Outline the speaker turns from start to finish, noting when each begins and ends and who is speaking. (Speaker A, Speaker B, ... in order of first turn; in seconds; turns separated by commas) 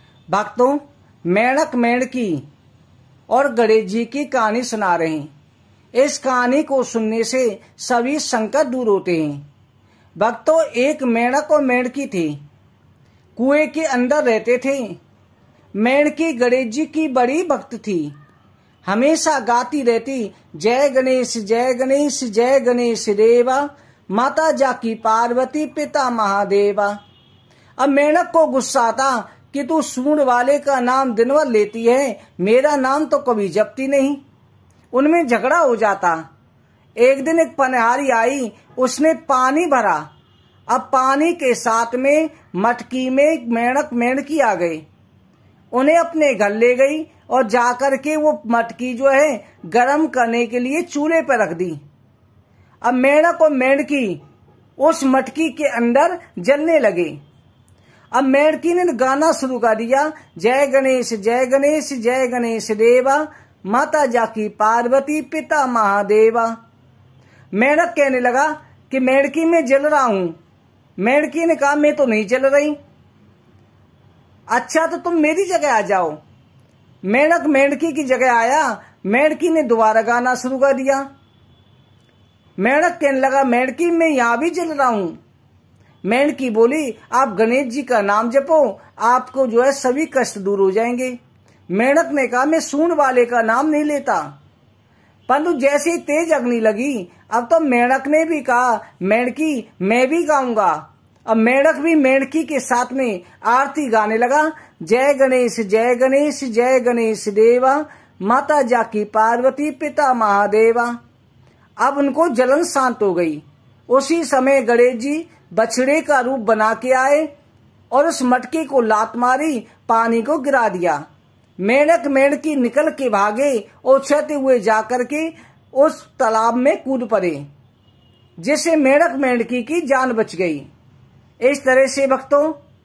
Speaker A: 0.3-2.5, Speaker A: 3.3-5.3, Speaker A: 6.0-9.4, Speaker A: 10.2-12.4, Speaker A: 13.4-15.0, Speaker A: 15.8-18.1, Speaker A: 18.9-27.0, Speaker A: 27.8-34.2, Speaker A: 34.9-36.2, Speaker A: 37.0-40.0, Speaker A: 40.7-44.8, Speaker A: 45.7-51.8, Speaker A: 52.8-54.2, Speaker A: 54.8-57.2, Speaker A: 58.1-66.5, Speaker A: 67.5-70.3, Speaker A: 71.0-72.8, Speaker A: 74.5-76.2, Speaker A: 77.1-81.0, Speaker A: 82.6-85.2, Speaker A: 86.0-91.2, Speaker A: 91.7-94.3, Speaker A: 95.3-111.0, Speaker A: 111.8-117.3, Speaker A: 117.9-121.0, Speaker A: 121.6-127.5, Speaker A: 128.4-130.7, Speaker A: 131.4-132.6